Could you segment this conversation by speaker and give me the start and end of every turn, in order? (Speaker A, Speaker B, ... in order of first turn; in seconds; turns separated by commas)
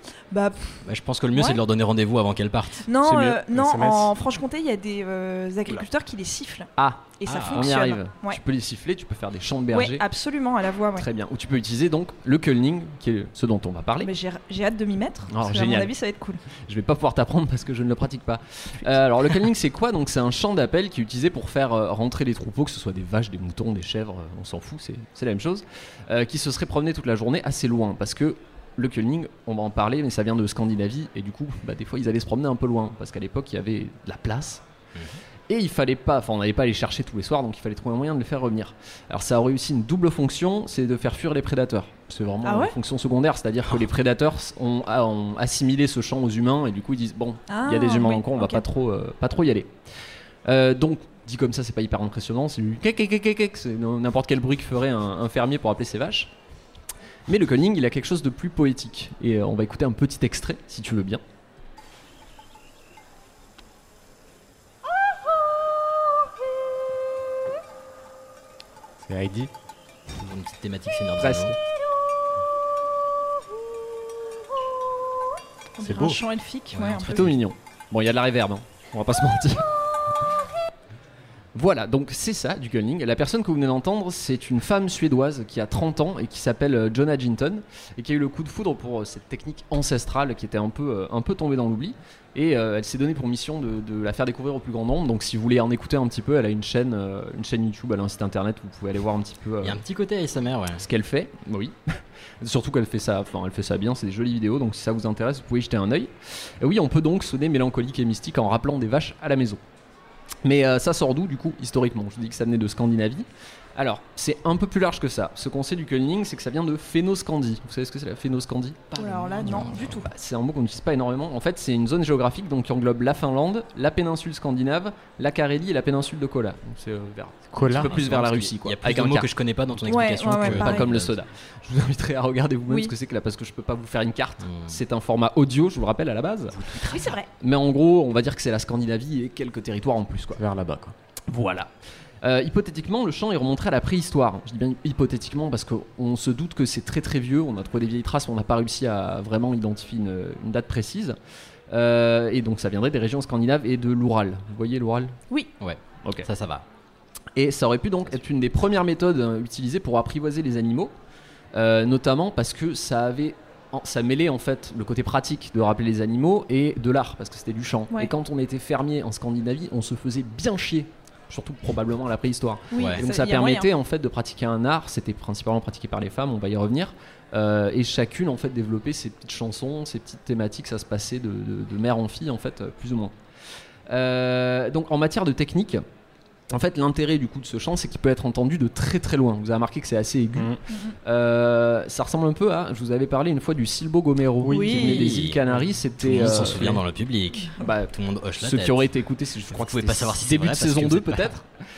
Speaker A: 0.3-0.8, Speaker B: 0.8-2.9, Speaker A: 1.3-1.6, Speaker A: 2.9-8.4, Speaker C: 3.0-4.2, Speaker D: 6.8-10.0, Speaker B: 7.2-7.7, Speaker A: 9.7-11.1, Speaker D: 10.9-14.1, Speaker A: 14.0-16.4, Speaker D: 15.3-15.9, Speaker D: 16.6-34.6, Speaker D: 35.5-49.8, Speaker A: 42.4-42.7, Speaker A: 47.5-48.6, Speaker D: 50.4-56.3, Speaker D: 57.3-61.2, Speaker C: 69.0-69.5, Speaker B: 70.1-71.5, Speaker D: 71.2-71.6, Speaker A: 75.8-77.2, Speaker C: 75.8-76.2, Speaker B: 76.7-77.3, Speaker D: 77.1-79.7, Speaker D: 81.5-99.8, Speaker B: 99.6-100.8, Speaker D: 100.8-101.8, Speaker D: 102.4-109.6, Speaker D: 110.4-118.8, Speaker B: 118.9-120.0, Speaker A: 119.0-120.1, Speaker D: 119.7-129.3, Speaker C: 127.5-128.0, Speaker B: 127.7-131.2, Speaker A: 129.9-130.9, Speaker D: 130.1-136.6, Speaker A: 132.7-132.9, Speaker B: 134.4-134.8, Speaker B: 136.6-137.1, Speaker A: 136.9-137.3, Speaker D: 137.4-140.4, Speaker C: 140.3-140.9, Speaker D: 141.3-141.7, Speaker D: 142.2-151.2, Speaker D: 151.7-155.2, Speaker B: 155.6-156.6, Speaker D: 156.0-156.3, Speaker D: 157.3-160.9, Speaker D: 161.5-183.1, Speaker A: 172.7-173.7, Speaker B: 172.8-173.0, Speaker D: 183.9-185.8, Speaker D: 186.5-196.8, Speaker A: 190.7-190.9, Speaker C: 194.4-194.9, Speaker A: 194.5-195.1, Speaker B: 194.8-198.9, Speaker D: 197.6-201.5, Speaker B: 199.5-201.3